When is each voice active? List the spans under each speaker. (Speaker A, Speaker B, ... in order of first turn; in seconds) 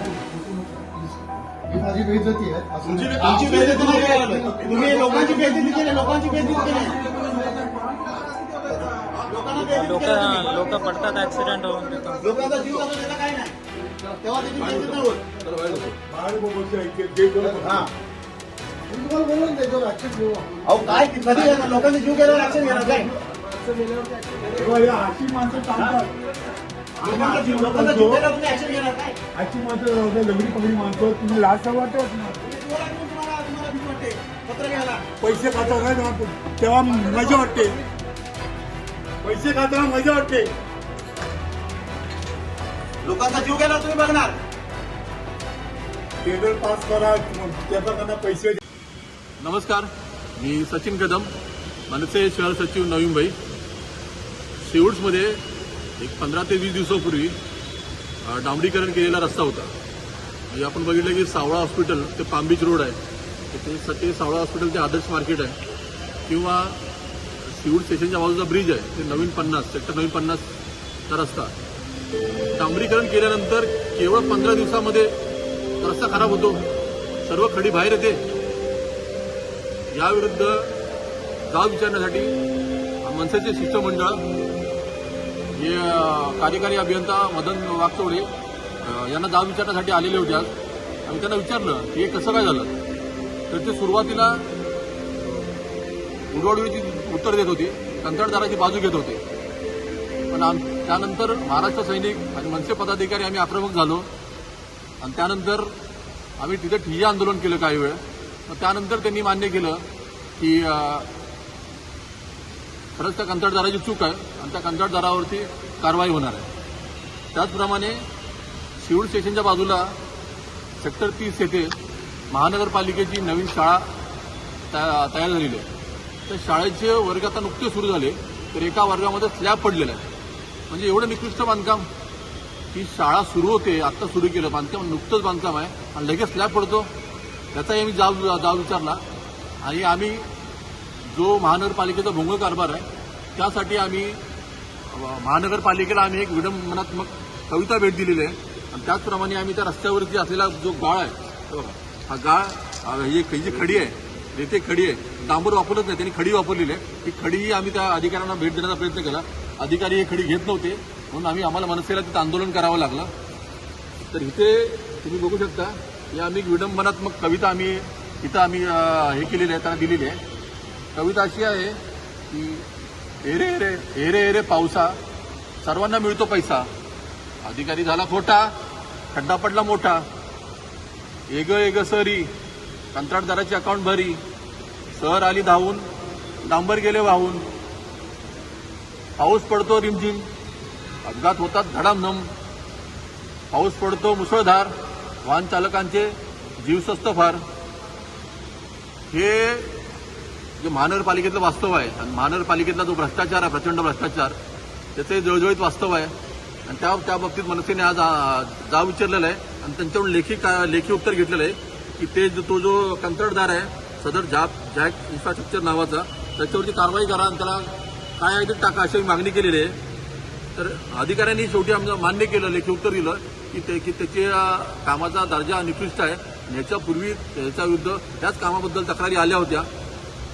Speaker A: 1.8-2.7, 19.1-20.5
Speaker B: 2.8-4.0, 4.6-5.1, 6.8-9.2, 14.5-16.0, 49.4-51.3, 51.9-53.4, 54.6-55.4, 56.0-57.4, 58.2-59.7, 60.5-63.0, 63.5-65.6, 66.2-66.9, 67.4-70.4, 71.1-71.5, 72.5-75.2, 75.8-76.7, 77.2-78.2, 79.9-80.7, 81.5-82.3, 83.0-84.2, 85.5-88.3, 88.8-90.5, 91.0-92.8, 93.5-94.5, 96.3-99.2, 100.3-104.1, 105.0-105.7, 106.4-109.8, 110.4-111.1, 113.0-116.5, 117.3-118.0, 118.8-120.0, 120.8-121.7, 122.3-123.9, 124.7-125.7, 126.3-130.0, 130.7-131.9, 132.7-136.9, 137.5-139.0, 139.6-140.3, 141.0-144.2, 144.8-163.1, 164.0-170.2, 170.9-172.7, 173.2-175.0, 175.6-176.7, 177.4-178.5, 179.1-180.1, 181.3-182.3, 182.9-184.2, 184.9-185.9, 186.4-187.4, 189.2-190.3, 191.0-192.3, 193.5-197.4, 199.1-199.8, 200.6-204.4, 204.9-206.1, 206.7-219.8, 220.5-229.7
Speaker C: 3.0-7.1, 8.7-11.1, 12.2-13.5, 14.2-15.2, 17.5-17.9, 20.6-23.1, 25.8-26.0, 27.0-29.2, 32.4-35.1, 43.0-44.4
Speaker D: 9.7-12.2
Speaker E: 16.1-17.9, 24.5-26.1, 27.0-28.2, 29.3-32.4, 35.2-37.8, 39.2-40.5, 46.2-48.6